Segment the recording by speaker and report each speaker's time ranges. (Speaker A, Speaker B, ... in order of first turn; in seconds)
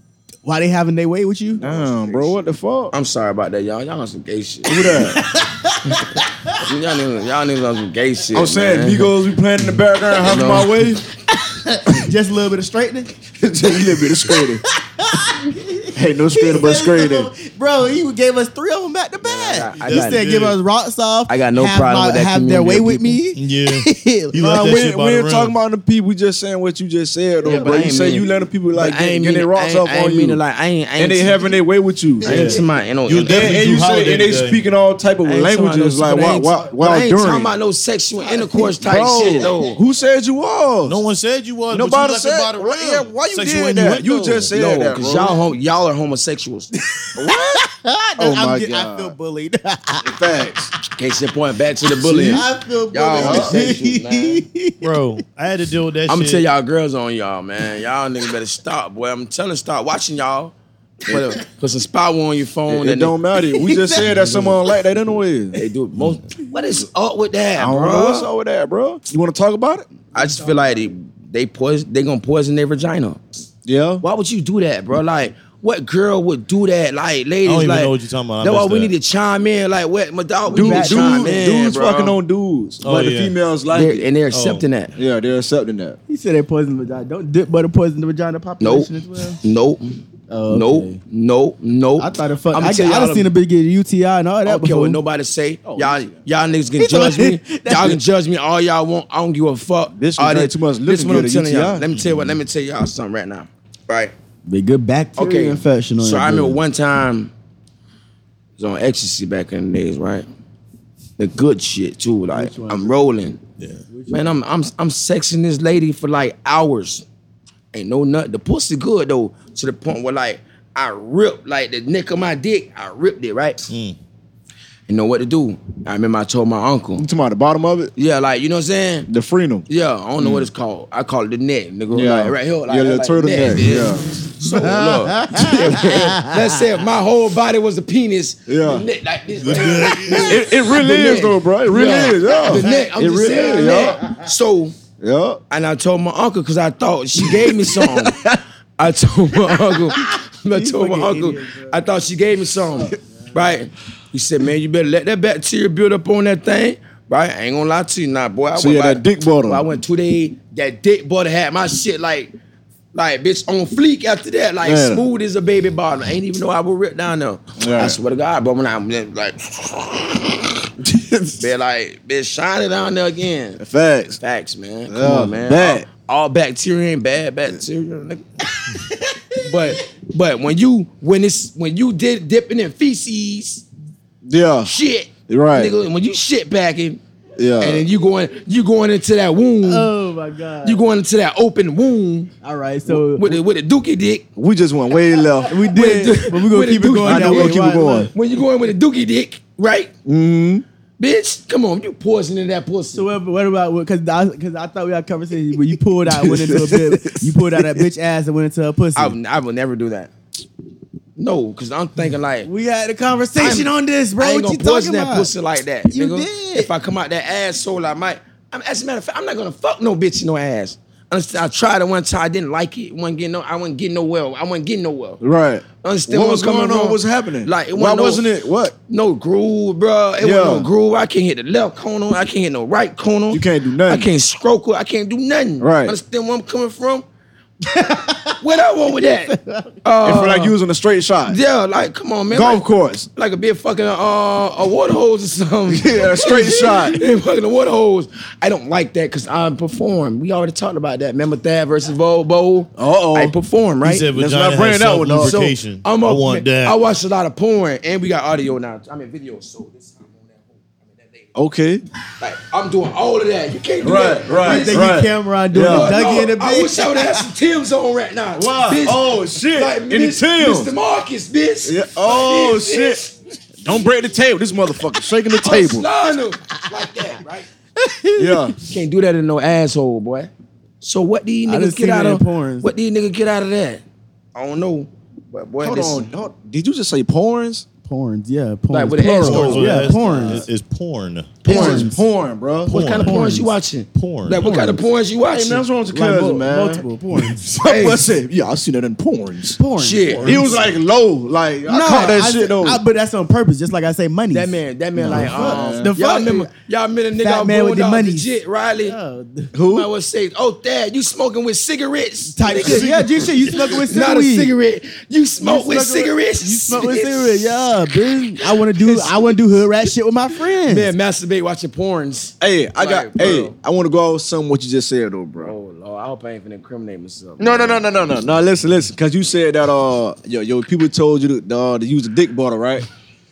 Speaker A: 0.5-1.7, 4.9-6.6, 11.3-13.2, 13.9-24.4, 27.4-28.1, 38.3-39.5, 47.0-50.1, 52.0-54.9, 63.5-64.3, 70.2-70.6, 80.5-81.5, 86.1-89.4, 90.3-91.0, 92.0-95.0, 96.8-98.0, 104.5-106.6, 112.3-113.0, 113.9-114.4, 134.5-136.5, 142.4-144.2, 150.0-151.8, 178.8-179.2, 189.6-190.8, 192.4-193.4, 195.5-198.1, 202.9-209.2, 212.4-215.3, 215.9-216.7, 237.7-238.4, 239.3-239.8, 264.4-267.3, 277.8-278.6, 281.5-282.7, 287.9-290.4, 291.5-292.0, 293.0-293.5, 294.4-294.8, 295.9-297.4, 299.6-300.7, 301.7-306.5, 307.2-308.3, 308.8-309.5, 312.3-314.5, 315.4-320.9
Speaker B: 1.6-2.3, 2.9-5.1, 6.6-9.1, 10.2-10.8, 19.2-20.3, 21.3-23.2, 27.4-31.5, 32.2-33.6, 35.2-39.8, 44.5-46.7, 51.0-54.4, 56.1-60.5, 61.1-63.1, 64.0-64.5, 65.5-68.3, 70.1-73.2, 74.0-82.2, 83.7-84.9, 88.6-93.3, 94.5-104.1, 105.2-107.3, 108.6-110.3, 111.2-113.4, 114.1-117.1, 117.7-123.7, 124.9-127.0, 128.0-129.1, 129.7-144.8, 145.5-148.2, 148.8-162.3, 162.9-170.6, 171.4-173.6, 174.2-178.2, 179.4-183.7, 184.7-187.0, 187.6-189.9, 190.6-192.3, 192.9-194.3, 195.7-199.9, 201.0-203.1, 209.0-210.1, 211.2-212.5, 213.4-225.2, 225.8-228.2, 228.9-237.1, 238.4-240.6, 241.3-254.1, 255.2-261.3, 262.2-265.0, 265.5-273.1, 275.4-277.5, 278.7-283.8, 284.4-286.1, 288.7-290.4, 291.4-292.0, 292.7-295.6, 297.4-298.1, 299.8-300.5, 304.3-309.0, 309.7-312.9, 313.4-317.5, 318.5-319.3, 320.7-323.6, 325.4-327.9
Speaker C: 1.6-2.9, 4.7-5.2, 8.3-11.0, 13.4-14.6, 15.9-17.3, 24.4-30.4, 31.0-32.6, 33.2-37.5, 38.8-41.0, 41.7-45.4, 47.2-47.6, 48.2-49.1, 50.0-50.7, 53.1-53.7, 62.7-65.6, 67.6-69.9, 73.7-74.0, 80.5-84.0, 85.0-86.0, 95.7-96.2, 99.9-101.8, 127.0-127.9, 129.1-129.7, 131.9-134.0, 138.5-138.8, 140.1-144.0, 145.0-145.4, 147.3-148.4, 158.6-159.7, 164.6-165.0, 167.6-168.0, 173.6-174.2, 174.9-175.9, 184.2-184.7, 185.3-185.8, 187.4-187.9, 194.4-195.7, 197.0-198.1, 200.1-200.6, 206.1-207.9, 225.2-228.8, 230.2-230.7, 233.3-234.1, 235.6-236.0, 240.0-241.4, 242.3-243.1, 245.7-247.1, 252.8-253.4, 254.2-255.4, 261.4-261.8, 263.8-266.1, 268.4-270.7, 271.6-273.0, 273.6-275.9, 278.2-278.6, 285.6-287.7, 291.5-292.7, 295.3-296.9, 297.6-299.6, 300.2-302.8, 305.0-305.9, 309.5-309.9, 322.4-325.5, 327.4-332.9
Speaker D: 19.8-20.6, 23.4-25.5, 32.3-32.5, 33.1-34.6, 40.9-44.5, 54.8-56.4, 77.5-78.9, 82.8-83.3, 84.3-84.6, 101.9-102.4, 123.7-124.0, 134.6-135.1, 139.4-140.5, 253.8-256.8, 289.2-291.5, 292.7-293.4, 293.9-294.4, 312.5-313.7